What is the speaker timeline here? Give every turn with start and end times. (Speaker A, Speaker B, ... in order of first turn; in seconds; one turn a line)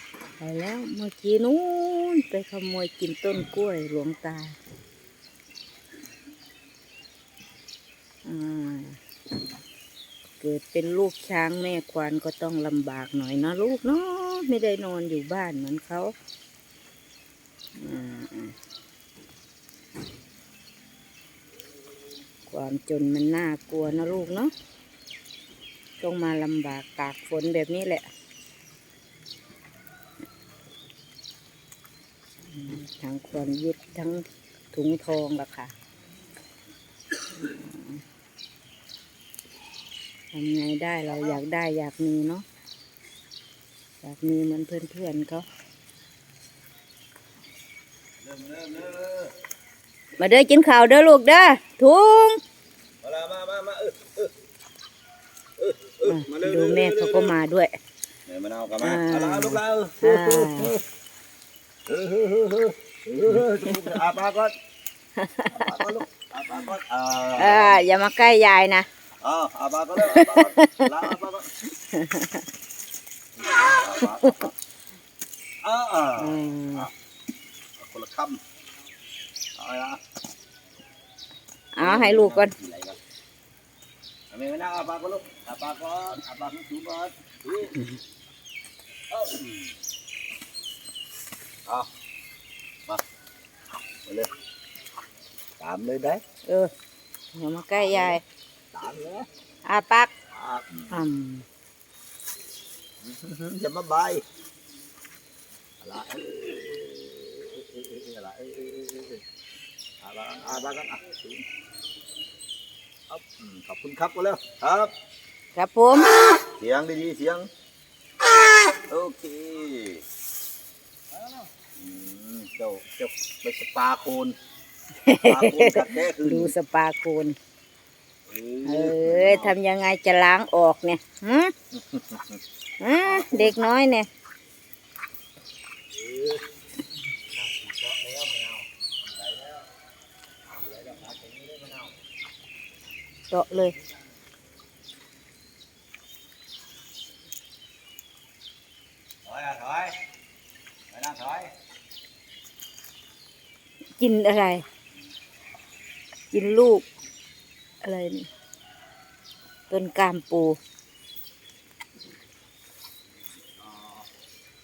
Speaker A: 0.4-4.6
Speaker A: 8.2-9.0
Speaker A: 10.4-16.1
Speaker A: 17.8-18.6
Speaker A: 22.5-24.5
Speaker A: 26.0-28.1
Speaker A: 32.5-35.7
Speaker A: 37.3-38.0
Speaker A: 40.3-42.5
Speaker A: 44.0-45.5
Speaker B: 48.2-49.3
Speaker A: 50.2-52.4
Speaker B: 53.0-54.3
Speaker B: 55.6-57.4
Speaker A: 56.0-57.7
Speaker B: 58.3-60.8
Speaker A: 58.8-60.8
Speaker B: 61.9-64.5
Speaker A: 65.2-65.8
Speaker B: 65.5-67.8
Speaker A: 67.4-68.9
Speaker B: 69.2-71.5
Speaker A: 70.0-71.0
Speaker A: 71.8-72.5
Speaker B: 73.4-74.5
Speaker B: 75.6-76.9
Speaker A: 76.2-76.9
Speaker B: 77.8-78.4
Speaker B: 79.6-80.0
Speaker A: 81.8-82.5
Speaker B: 81.8-83.0
Speaker B: 84.3-87.8
Speaker B: 89.1-89.7
Speaker B: 94.1-94.3
Speaker B: 95.6-96.2
Speaker A: 97.3-98.2
Speaker B: 98.7-99.3
Speaker A: 99.7-100.1
Speaker B: 100.3-101.0
Speaker A: 100.9-101.5
Speaker B: 103.0-104.2
Speaker B: 105.8-109.2
Speaker B: 110.0-111.5
Speaker B: 113.1-114.9
Speaker A: 115.5-116.4
Speaker B: 116.6-117.5
Speaker B: 118.9-120.0
Speaker B: 121.8-124.3
Speaker A: 125.0-127.4
Speaker B: 125.1-126.5
Speaker B: 128.3-129.6
Speaker A: 128.6-131.5
Speaker B: 131.8-132.4
Speaker A: 132.8-134.1
Speaker B: 133.1-133.5
Speaker B: 135.9-136.4
Speaker B: 137.3-139.7
Speaker B: 140.5-142.0
Speaker A: 143.3-143.8
Speaker B: 149.2-149.9
Speaker B: 150.9-151.5
Speaker A: 154.0-154.7
Speaker A: 156.3-156.9
Speaker A: 157.8-158.3
Speaker A: 159.7-160.6
Speaker B: 163.4-164.1